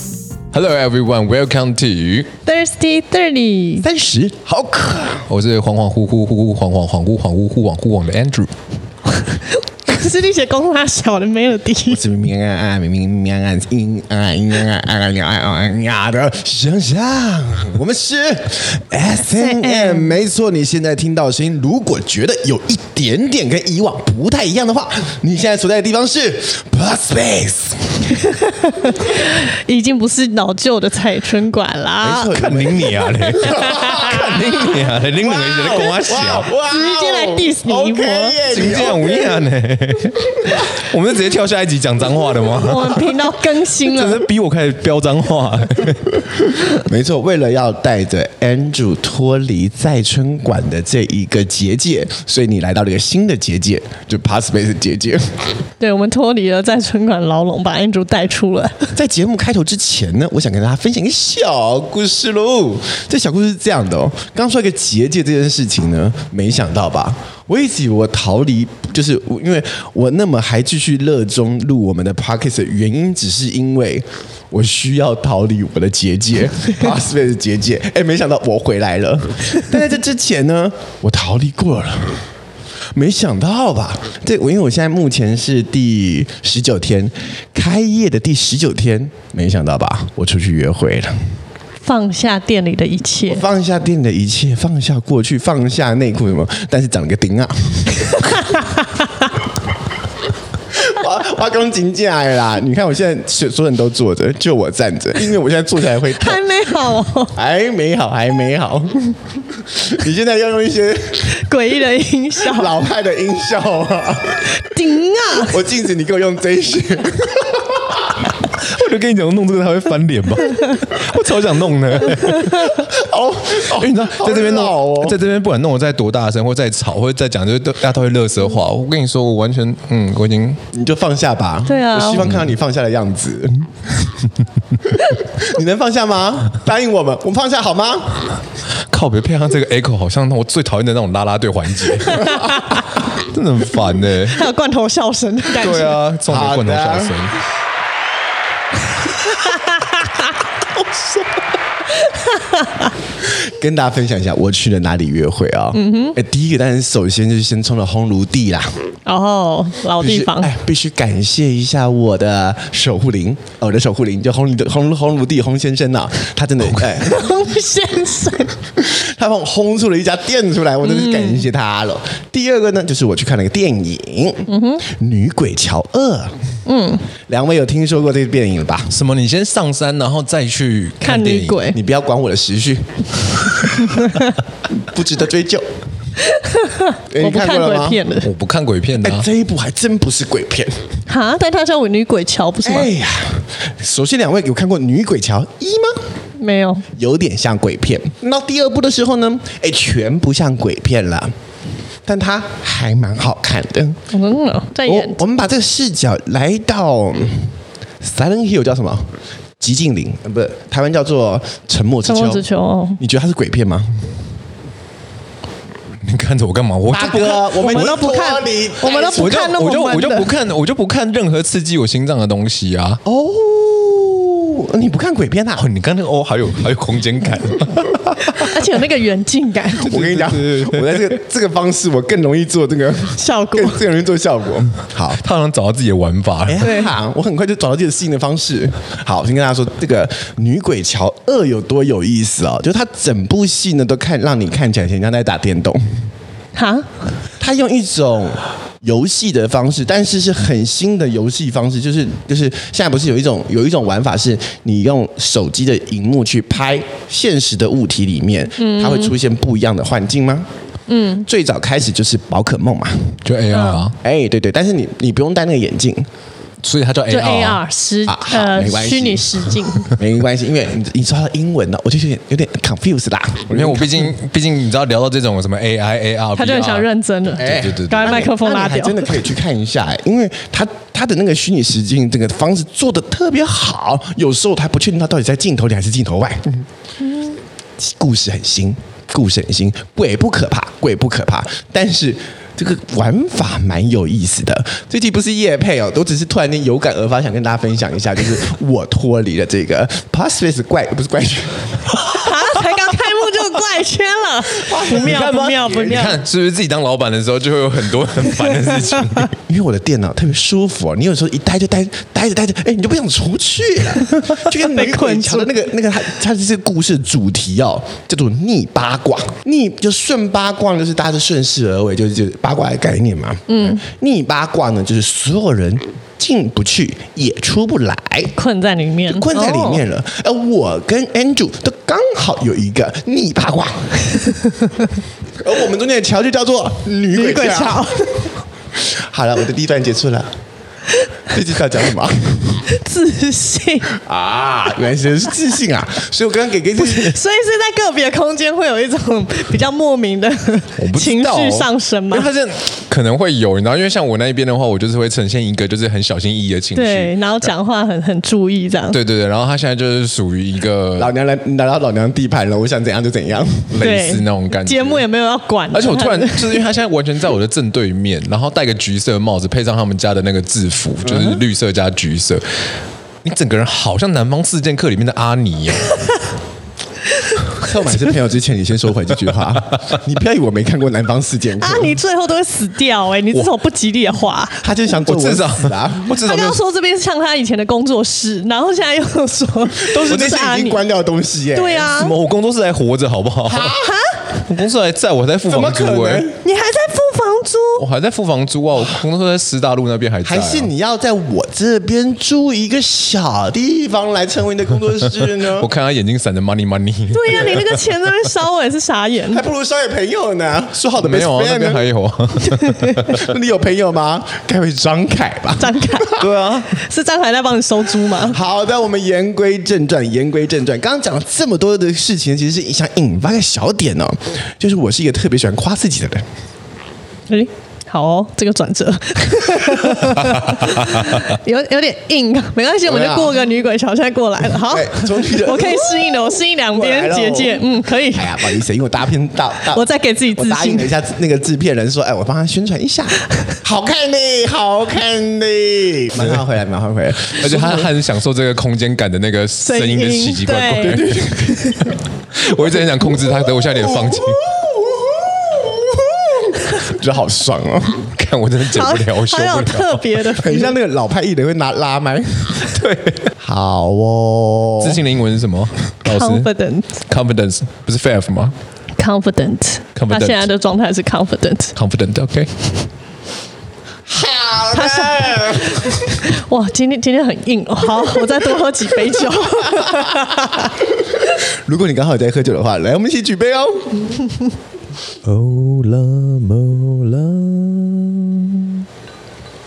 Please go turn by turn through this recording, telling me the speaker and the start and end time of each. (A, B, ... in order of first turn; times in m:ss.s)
0:00.5-0:02.3 A
0:02.4-0:03.8 B
0:03.8-0:05.3 C
0:05.3-0:08.5 A
0:09.3-0:12.0 B
0:11.9-0:28.2 C
0:19.4-0:20.1 B
0:28.4-0:32.3 B
0:32.0-0:39.4 C
0:32.1-0:36.5 A
0:36.7-0:38.4 B
0:38.5-0:43.2 A
0:42.6-0:44.2 B
0:43.8-0:46.2 A
0:46.8-0:55.5 C
0:55.8-0:58.9 B
0:58.9-1:22.2 C
1:22.9-1:31.2 C
1:31.8-1:33.4 B
1:33.3-1:38.5 C
1:38.3-1:39.1 B
1:40.7-1:46.4 C
1:46.1-1:47.3 B
1:47.3-1:51.4 C
1:51.3-1:52.7 B
1:52.4-1:54.5 C
1:54.5-1:55.5 B
1:55.4-1:58.3 C
1:58.4-2:02.8 A
2:02.5-2:05.2 C
2:03.6-2:10.6 A
2:10.7-2:14.2 C
2:11.6-2:12.3 B
2:14.8-2:18.4 C
2:18.9-2:24.4 A
2:22.1-2:22.8 B
2:24.3-2:26.0 B
2:25.6-2:27.4 A
2:26.3-2:27.1 C
2:29.3-2:30.1 B
2:32.0-2:32.9 B
2:33.2-2:38.9 C
2:35.7-2:36.2 B
2:39.0-2:40.5 B
2:40.0-2:47.3 C
2:47.0-2:48.5 B
2:48.8-2:56.4 C
2:50.8-2:51.4 B
2:54.5-2:54.8 B
2:56.6-2:57.1 B
2:57.3-2:58.9 C
2:58.9-3:01.6 A
3:01.0-3:01.8 B
3:01.7-3:04.0 C
3:04.0-3:04.2 B
3:04.7-3:05.6 C
3:06.2-3:08.3 B
3:07.1-3:08.0 C
3:08.2-3:09.2 A
3:09.0-3:10.9 C
3:11.1-3:12.9 B
3:12.6-3:16.1 C
3:16.4-3:16.8 B
3:16.9-3:21.3 C
3:22.0-3:24.0 C
3:24.1-3:25.2 B
3:24.8-3:32.4 C
3:32.0-3:33.0 B
3:33.0-3:34.2 C
3:36.0-3:37.9 A
3:36.9-3:39.5 C
3:37.5-3:40.3 B
3:39.1-3:43.0 A
3:43.0-3:45.6 C
3:45.6-3:48.5 A
3:48.4-3:49.9 B
3:49.8-3:55.2 C
3:49.8-3:51.2 A
3:53.2-3:53.8 B
3:55.2-3:56.7 A
3:56.5-4:05.8 C
3:56.6-3:56.9 B
4:06.5-4:06.9 B
4:07.4-4:20.5 C
4:18.6-4:19.1 B
4:20.9-4:21.2 B
4:21.2-4:23.2 C
4:23.2-4:24.0 A
4:23.5-4:23.9 B
4:24.0-4:26.1 C
4:26.6-4:27.6 A
4:27.1-4:30.0 B
4:28.1-4:34.1 C
4:33.5-4:38.3 A
4:36.4-4:39.1 B
4:37.4-4:46.6 C
4:47.0-4:47.3 B
4:47.8-5:02.3 C
5:02.1-5:06.2 B
5:04.6-5:05.8 C
5:04.9-5:09.3 A
5:09.4-5:28.3 C
5:14.4-5:15.5 B
5:23.5-5:23.8 B
5:28.4-5:29.8 B
5:29.1-5:34.0 C
5:35.4-5:38.0 C
5:37.1-5:38.2 B
5:38.8-5:40.3 C
5:41.3-5:42.6 C
5:42.7-5:43.9 B
5:43.9-5:47.2 C
5:46.8-5:52.3 B
5:50.8-5:57.5 A
5:56.7-5:59.0 B
5:58.9-6:01.1 A
6:01.0-6:03.7 C
6:03.7-6:05.0 A
6:03.8-6:06.6 B
6:05.7-6:12.4 A
6:11.0-6:11.4 C
6:13.2-6:16.1 A
6:17.6-6:22.0 C
6:21.6-6:24.6 B
6:24.6-6:26.0 C
6:25.1-6:26.6 A
6:26.1-6:30.8 B
6:29.9-6:31.9 C
6:30.0-6:30.4 A
6:31.5-6:32.1 B
6:32.0-6:33.8 A
6:33.5-6:33.9 C
6:33.8-6:34.2 B
6:34.4-6:36.3 A
6:35.5-6:36.4 C
6:36.4-6:37.8 B
6:37.8-6:40.7 A
6:40.2-6:45.7 C
6:45.2-6:47.8 A
6:47.1-6:49.4 B
6:49.3-6:51.8 C
6:51.0-6:53.2 A
6:52.5-6:53.0 B
6:53.1-6:56.3 C
6:55.6-6:58.4 B
6:56.2-6:56.8 A
6:58.1-7:06.3 C
7:07.3-7:18.5 B
7:10.6-7:10.9 A
7:12.8-7:13.4 C
7:14.6-7:27.9 C
7:19.7-7:20.9 B
7:27.2-7:34.5 A
7:29.6-7:31.0 B
7:30.8-7:31.9 C
7:32.5-7:38.1 C
7:38.1-7:40.3 A
7:38.7-7:40.7 B
7:40.4-7:42.7 C
7:42.6-7:43.3 A
7:43.4-7:45.0 C
7:44.8-7:46.5 A
7:46.0-7:47.0 B
7:47.1-7:48.5 A
7:49.0-7:51.7 B
7:50.0-7:50.5 A
7:51.8-7:52.5 A
7:54.1-7:56.2 C
7:54.7-8:00.7 B
7:59.7-8:04.1 C
8:05.2-8:08.8 C